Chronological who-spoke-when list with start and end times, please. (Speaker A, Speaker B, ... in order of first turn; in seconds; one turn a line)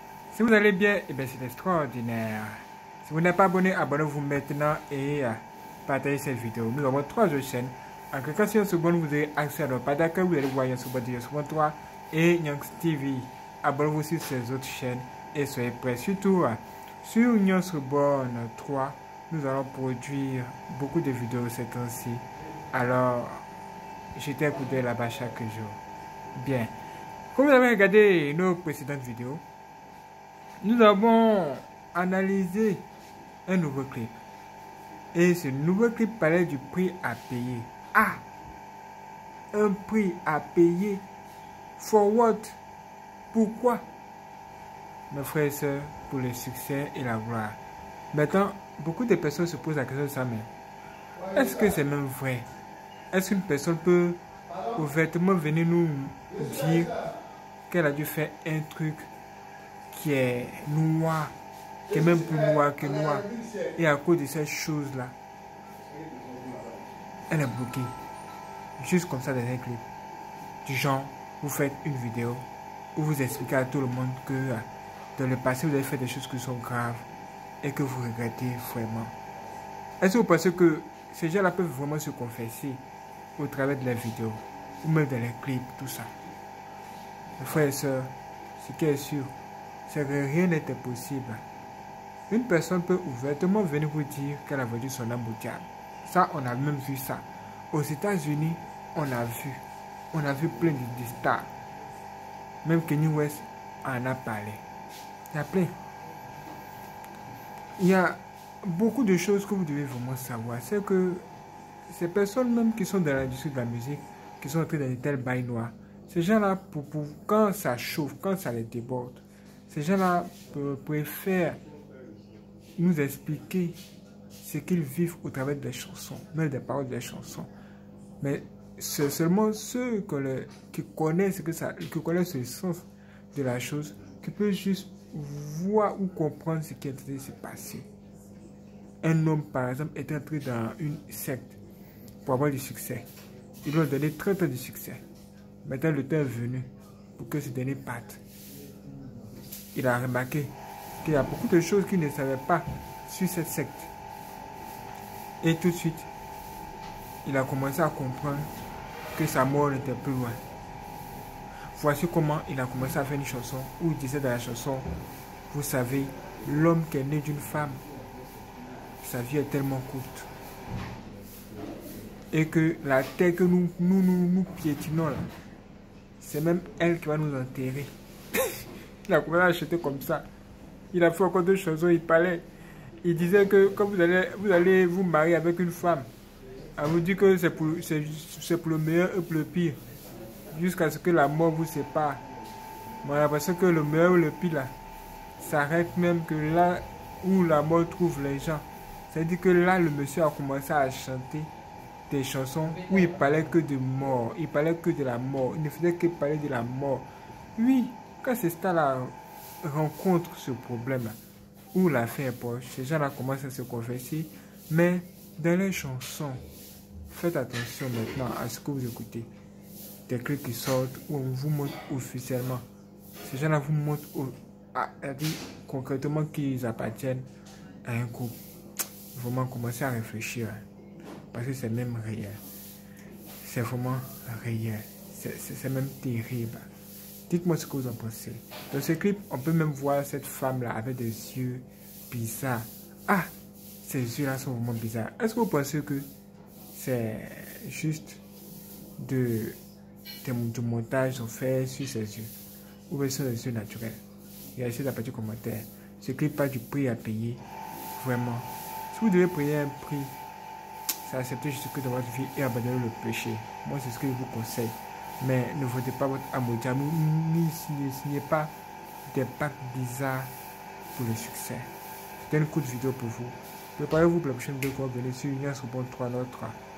Speaker A: 0.3-23.4
Speaker A: 24.1-25.8
Speaker A: 26.4-26.7
Speaker A: 27.3-29.4
Speaker A: 30.6-32.9
Speaker A: 33.5-34.2
Speaker A: 35.1-38.2
Speaker A: 39.5-41.0
Speaker A: 41.8-42.6
Speaker A: 43.3-43.9
Speaker A: 45.1-47.6
Speaker A: 48.1-50.5
Speaker A: 51.3-52.5
Speaker A: 53.1-57.0
Speaker A: 57.7-59.1
Speaker A: 59.9-61.3
Speaker A: 61.9-65.2
Speaker A: 67.3-68.0
Speaker A: 68.8-69.8
Speaker A: 70.6-77.1
Speaker A: 77.6-79.2
Speaker A: 80.0-82.8
Speaker A: 83.4-86.1
Speaker A: 87.4-89.3
Speaker A: 89.9-91.4
Speaker A: 92.3-101.5
Speaker A: 102.6-104.6
Speaker A: 105.3-105.8
Speaker A: 107.8-111.3
Speaker A: 111.9-121.6
Speaker A: 122.8-123.8
Speaker A: 124.4-127.5
Speaker A: 128.2-137.9
Speaker A: 139.0-141.6
Speaker A: 142.2-143.1
Speaker A: 143.6-145.0
Speaker A: 145.6-148.2
Speaker A: 149.7-153.9
Speaker A: 155.4-156.1
Speaker A: 157.2-158.5
Speaker A: 159.2-160.4
Speaker A: 161.8-164.9
Speaker A: 165.5-167.8
Speaker A: 169.0-170.3
Speaker A: 172.3-175.3
Speaker A: 176.2-180.3
Speaker A: 180.9-182.4
Speaker A: 183.0-186.1
Speaker A: 186.8-189.8
Speaker A: 190.5-192.2
Speaker A: 193.0-194.7
Speaker A: 195.4-201.5
Speaker A: 202.1-211.2
Speaker A: 211.7-216.4
Speaker A: 217.1-219.3
Speaker A: 220.1-222.7
Speaker A: 223.2-227.3
Speaker A: 227.8-228.4
Speaker A: 229.1-230.6
Speaker A: 231.3-232.4
Speaker A: 233.4-236.7
Speaker A: 237.3-246.1
Speaker A: 246.7-248.2
Speaker A: 249.0-249.6
Speaker A: 250.2-252.3
Speaker A: 252.9-254.0
Speaker A: 254.6-257.4
Speaker A: 258.0-260.1
Speaker A: 261.0-268.5
Speaker A: 269.1-270.3
Speaker A: 270.9-276.6